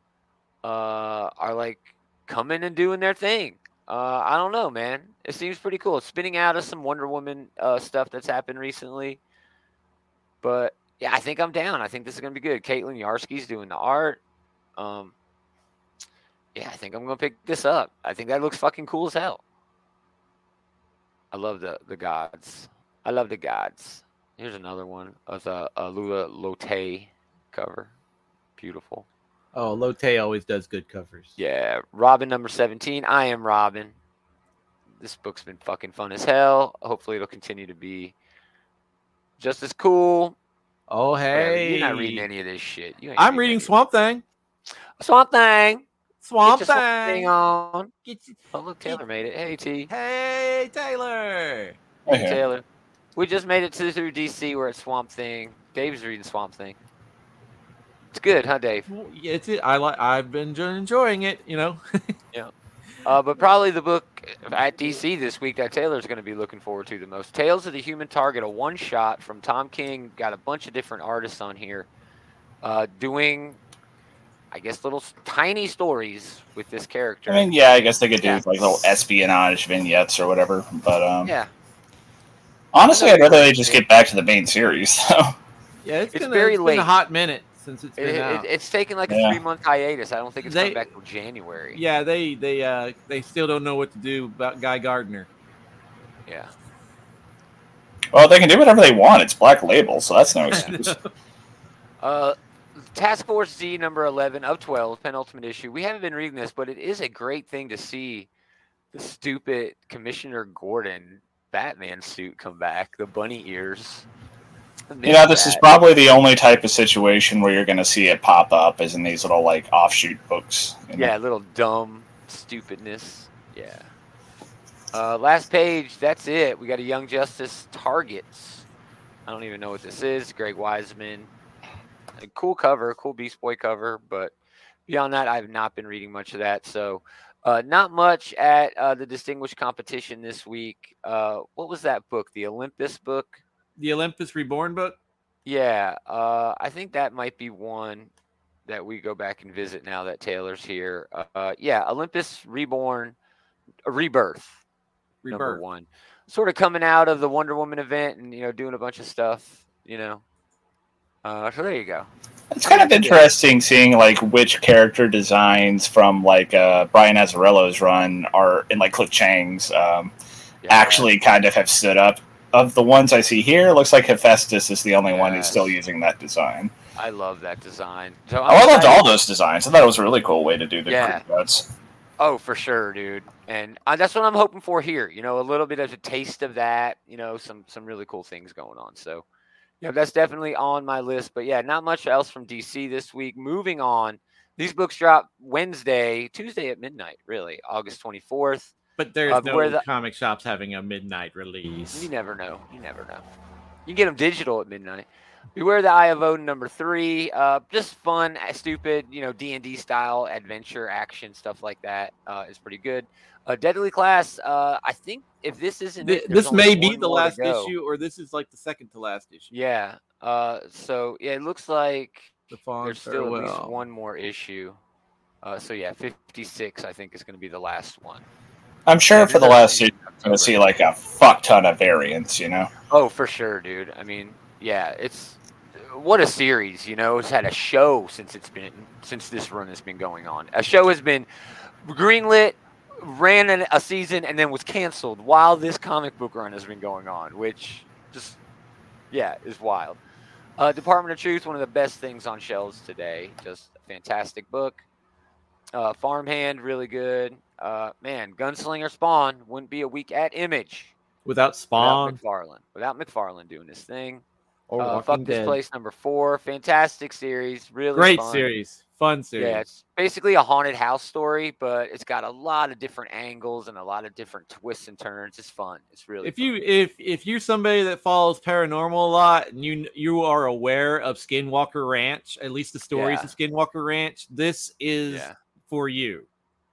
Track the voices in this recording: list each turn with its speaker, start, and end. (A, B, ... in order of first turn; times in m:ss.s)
0:00.6-0:09.2 A
0:10.4-0:14.2 A
0:14.8-0:15.1 A
0:16.6-0:19.4 A
0:21.3-0:27.9 A
0:28.6-0:29.1 A
0:29.5-0:31.3 B
0:31.4-0:34.0 A
0:35.0-0:38.2 A
0:39.4-0:40.4 A
0:40.9-0:42.3 B
0:41.3-0:43.7 A
0:43.2-0:44.2 B
0:45.0-0:45.9 A
0:46.2-0:47.3 B
0:46.4-0:47.9 A
0:48.0-0:49.0 B
0:48.5-0:49.9 A
0:49.9-0:51.8 B
0:52.1-0:52.6 A
0:52.1-0:52.4 C
0:53.2-0:56.8 A
0:58.1-0:58.9 A
0:58.9-1:02.1 B
1:03.0-1:11.9 A
1:12.6-1:13.6 A
1:14.5-1:17.5 A
1:17.3-1:21.3 C
1:21.2-1:21.5 A
1:22.7-1:25.4 C
1:22.9-1:23.8 A
1:25.8-1:28.5 B
1:26.1-1:26.9 A
1:28.0-1:31.8 A
1:29.1-1:29.4 C
1:30.4-1:30.8 B
1:31.7-1:35.3 B
1:36.3-1:36.5 A
1:38.1-1:40.9 C
1:40.5-1:41.1 B
1:42.0-1:48.3 A
1:48.9-1:54.1 A
1:54.9-1:55.6 A
1:55.0-2:01.1 C
2:00.9-2:03.9 A
2:04.9-2:08.7 A
2:09.3-2:11.3 A
2:12.2-2:14.3 A
2:14.9-2:23.4 A
2:23.8-2:25.0 B
2:25.5-2:28.1 A
2:28.7-2:33.2 A
2:33.8-2:34.6 A
2:35.2-2:35.6 B
2:35.3-2:40.2 A
2:41.2-2:42.1 A
2:42.5-2:50.1 C
2:42.7-2:43.3 A
2:50.6-2:51.1 A
2:50.7-2:56.7 C
2:55.1-2:55.7 A
2:57.0-2:59.1 A
2:58.5-3:01.7 C
3:00.9-3:01.2 A
3:02.2-3:09.2 A
3:09.8-3:18.7 A
3:19.0-3:22.1 B
3:19.3-3:19.8 A
3:21.9-3:23.3 A
3:23.9-3:37.7 A
3:36.0-3:39.5 B
3:39.5-3:44.8 A
3:42.5-3:43.8 B
3:45.4-3:48.3 A
3:48.9-3:52.7 C
3:49.2-3:50.7 A
3:52.9-4:01.3 A
4:01.8-4:08.4 A
4:09.1-4:10.0 A
4:10.6-4:14.8 A
4:15.7-4:21.0 A
4:21.2-4:22.2 B
4:21.8-4:24.2 A
4:24.7-4:25.6 B
4:24.8-4:28.5 A
4:27.9-4:29.6 B
4:29.4-4:36.5 A
4:36.2-4:46.3 B
4:42.9-4:43.3 A
4:45.1-4:45.4 A